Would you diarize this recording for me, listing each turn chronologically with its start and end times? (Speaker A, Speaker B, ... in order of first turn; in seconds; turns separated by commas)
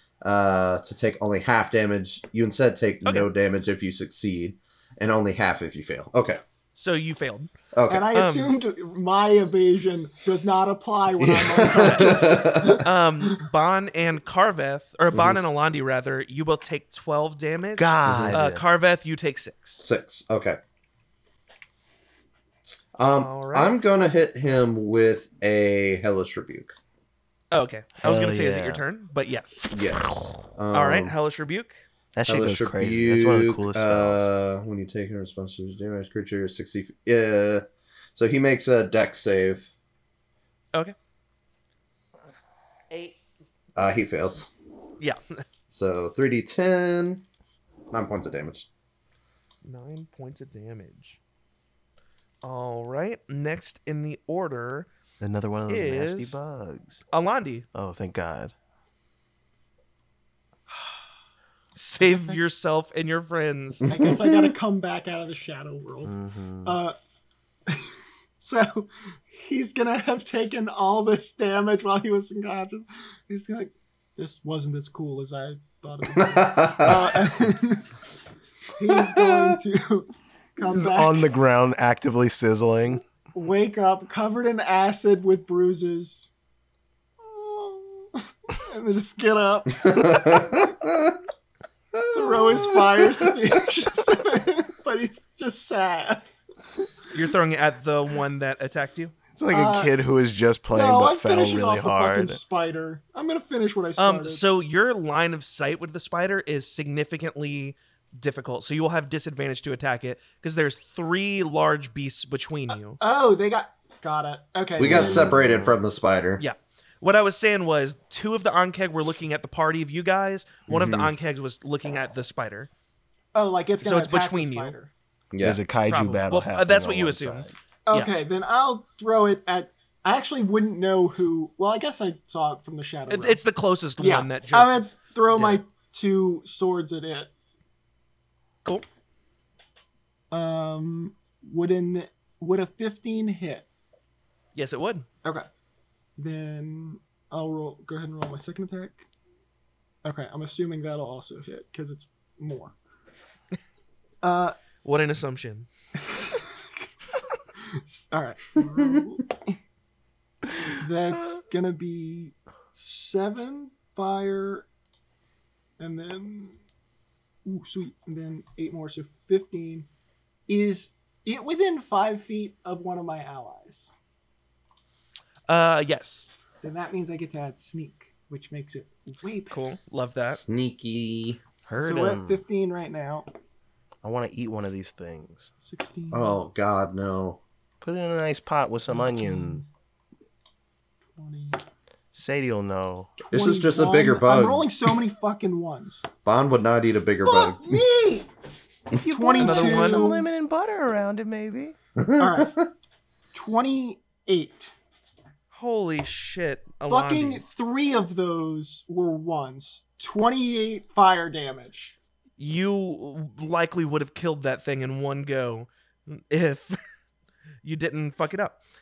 Speaker A: 0.2-6.4, Speaker B: 3.0-3.3, Speaker B: 6.7-7.5, Speaker A: 7.7-8.1, Speaker C: 7.9-13.3, Speaker B: 8.1-8.5, Speaker A: 11.2-12.8, Speaker B: 12.8-19.8, Speaker A: 15.1-15.4, Speaker D: 17.8-18.6, Speaker A: 18.1-18.4, Speaker A: 19.8-20.6, Speaker A: 23.0-26.7, Speaker B: 23.2-23.7, Speaker B: 27.5-29.6, Speaker D: 28.0-28.8, Speaker A: 29.7-31.1, Speaker D: 30.0-30.3, Speaker B: 30.7-31.8, Speaker D: 32.1-34.3, Speaker A: 32.2-37.6, Speaker A: 38.1-39.7, Speaker B: 42.9-43.2, Speaker A: 43.8-44.5, Speaker B: 45.0-45.4, Speaker A: 45.7-47.2, Speaker A: 47.9-48.7, Speaker B: 49.6-51.2, Speaker B: 52.4-54.9, Speaker D: 55.2-57.0, Speaker B: 55.7-56.4, Speaker B: 57.1-57.6, Speaker D: 57.7-58.5, Speaker B: 61.7-63.9, Speaker C: 62.0-62.4, Speaker A: 63.9-64.5, Speaker C: 63.9-67.0, Speaker D: 66.0-66.8, Speaker C: 67.7-77.9, Speaker A: 76.1-77.1, Speaker C: 78.7-81.3, Speaker A: 78.8-79.6, Speaker D: 80.7-83.0, Speaker C: 83.3-86.3, Speaker C: 87.2-90.7, Speaker A: 89.8-91.2, Speaker A: 91.9-93.3, Speaker C: 92.1-96.3, Speaker B: 97.1-99.1, Speaker D: 99.3-102.4, Speaker C: 99.5-99.9, Speaker C: 100.7-104.4, Speaker B: 104.0-113.0, Speaker C: 113.0-115.5, Speaker A: 114.8-116.4, Speaker D: 114.8-115.7, Speaker B: 116.4-122.7, Speaker A: 120.7-121.1, Speaker C: 123.3-124.9, Speaker B: 123.8-124.7, Speaker A: 125.3-125.6, Speaker D: 125.4-127.5, Speaker B: 125.9-128.1, Speaker C: 127.9-133.4, Speaker B: 133.1-135.6, Speaker C: 134.0-137.3, Speaker C: 140.3-143.7, Speaker B: 144.5-145.1, Speaker C: 146.2-149.0, Speaker C: 150.0-152.7, Speaker C: 154.2-154.6, Speaker B: 154.8-155.7, Speaker C: 156.0-156.8, Speaker C: 157.7-159.6, Speaker C: 160.7-164.7, Speaker C: 165.8-166.6, Speaker C: 167.4-169.9, Speaker C: 170.5-173.9, Speaker B: 175.5-176.3, Speaker C: 176.6-179.6, Speaker B: 179.5-180.4, Speaker A: 180.2-181.4, Speaker D: 181.7-182.4, Speaker C: 181.8-183.2, Speaker D: 184.0-185.5, Speaker C: 185.6-186.4, Speaker A: 186.1-187.4, Speaker D: 187.8-189.6, Speaker C: 188.9-189.7, Speaker C: 191.2-191.6, Speaker D: 192.1-193.1, Speaker C: 193.2-196.1, Speaker A: 193.3-194.9, Speaker A: 196.2-197.8, Speaker C: 197.2-198.3, Speaker C: 198.9-200.3, Speaker D: 199.1-201.7, Speaker B: 199.4-200.1, Speaker A: 202.0-202.7, Speaker C: 202.2-202.6, Speaker C: 203.3-204.7, Speaker B: 205.5-207.4, Speaker C: 206.9-212.0, Speaker B: 212.4-216.8, Speaker B: 217.6-218.6